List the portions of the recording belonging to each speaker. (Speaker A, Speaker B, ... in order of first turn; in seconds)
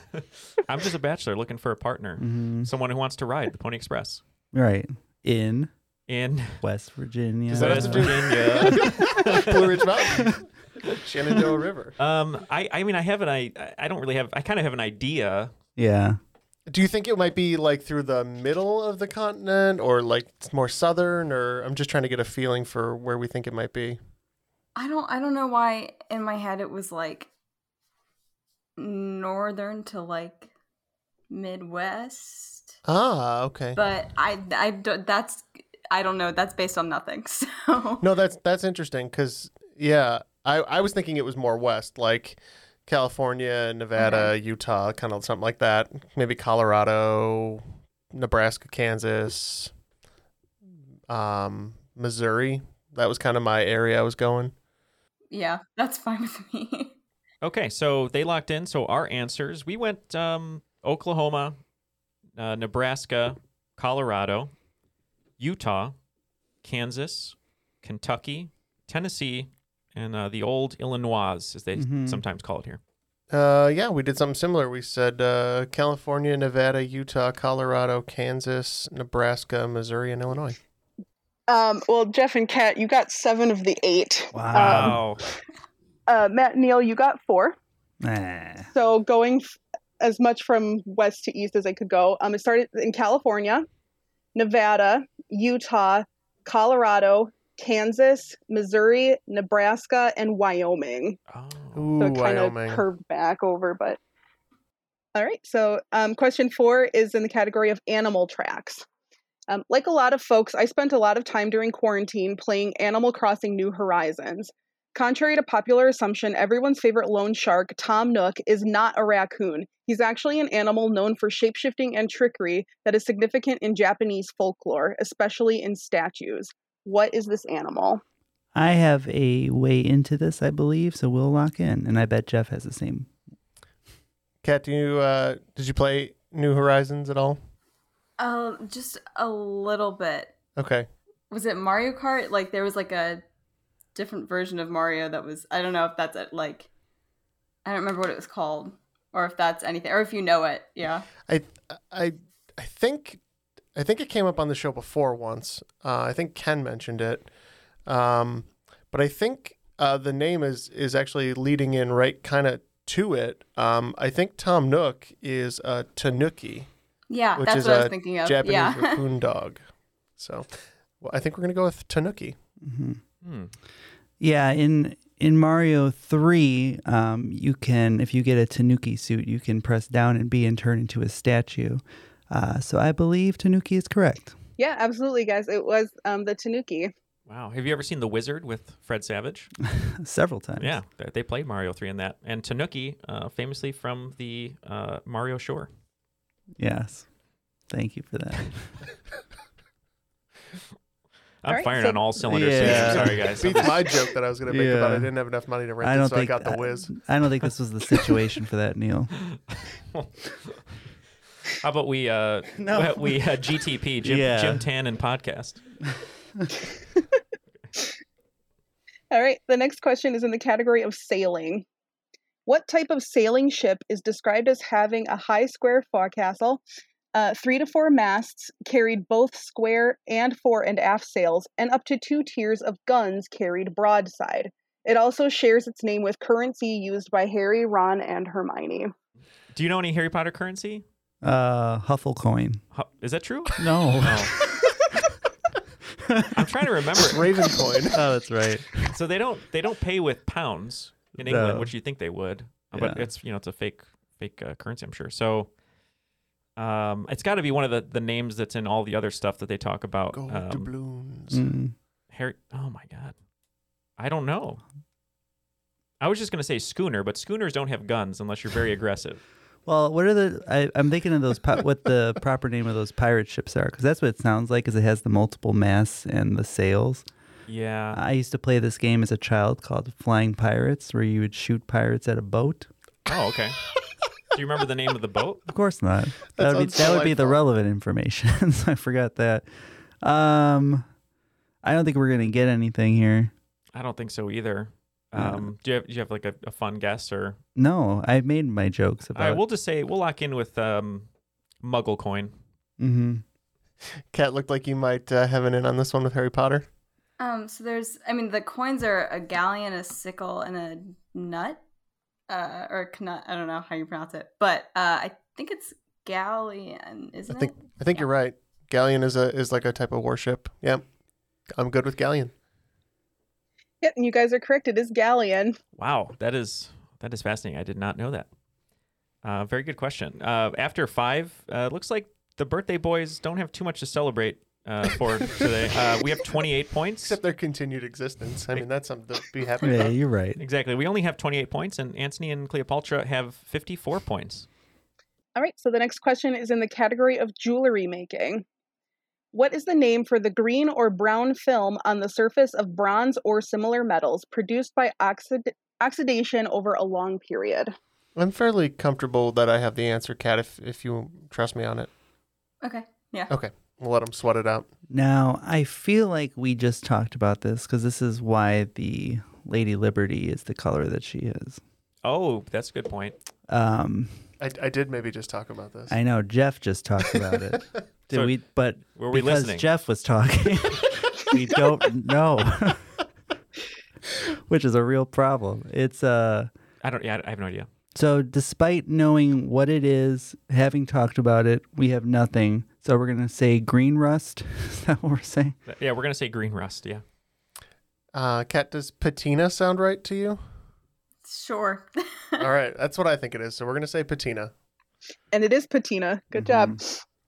Speaker A: 0.2-4.2, 6.1-6.6, 7.5-9.8, 12.0-15.5, 57.4-61.6, 62.4-64.5, 65.4-65.9, 66.6-72.8, 84.5-85.2, 101.3-101.9, 173.2-173.5, 187.3-189.5, 190.6-195.7, 201.4-203.9, 209.2-210.6, 211.6-215.6, 239.5-240.8, 242.7-244.3, 246.3-247.2, 248.9-255.5, 256.6-260.7, 262.1-263.1, 264.0-264.6, 266.0-269.2, 277.5-278.0, 283.1-283.6, 284.3-285.4, 293.7-297.4, 299.1-301.1, 301.6-302.4, 325.8-328.3, 329.2-337.2, 340.4-344.5, 372.0-373.1, 378.1-378.4, 378.9-379.7, 386.8-387.7, 395.7-397.0
Speaker B: 2.2-2.7, 4.5-5.7, 6.6-9.2, 15.8-16.2, 71.8-72.2, 84.3-85.0, 88.0-88.7, 128.5-133.1, 172.6-173.0, 174.2-184.4, 189.6-190.8, 196.6-197.1, 197.7-198.8, 202.2-203.3, 204.5-205.1, 205.8-209.1, 212.6-213.2, 214.0-214.6, 241.2-242.6, 243.6-244.4, 246.1-246.3, 247.9-248.9, 251.2-251.7, 252.7-253.1, 261.3-261.7, 269.6-277.1, 277.9-282.7, 285.5-289.5, 290.0-290.9, 291.6-293.3, 295.1-295.5, 297.6-299.4, 302.8-303.2, 339.6-340.4, 364.9-371.6, 373.5-374.2, 375.9-382.9, 384.4-386.5, 387.9-395.6, 406.3-406.8
Speaker C: 7.5-11.9, 16.7-24.0, 32.9-33.8, 38.0-49.7, 51.1-54.5, 73.3-80.6, 101.8-102.8, 134.4-137.4, 140.6-140.9, 151.3-153.2, 153.8-157.3, 157.9-166.7, 167.4-169.6, 170.2-170.5, 171.0-172.4, 202.6-206.9, 247.1-248.0, 260.1-261.5, 286.4-287.4, 304.1-306.6, 317.3-320.8, 321.6-322.3, 337.0-340.0, 358.1-361.9, 363.3-364.7, 374.4-375.9, 398.1-400.4, 402.4-404.5
Speaker D: 24.8-27.3, 28.8-30.5, 31.3-32.8, 33.8-38.0, 44.0-44.3, 55.3-56.9, 138.2-140.3, 141.3-143.2, 143.9-146.7, 147.6-151.1, 167.1-169.0, 307.2-311.6, 312.3-318.1, 362.6-363.3, 401.2-402.5
Speaker E: 81.5-85.0, 86.1-87.6, 88.7-93.6, 94.3-101.2, 102.0-104.0, 105.1-108.8, 109.5-128.0, 184.6-186.9, 201.5-202.1, 219.1-221.6, 222.4-226.6, 227.1-238.9, 323.8-325.6, 345.4-348.4, 349.3-357.7, 405.3-407.0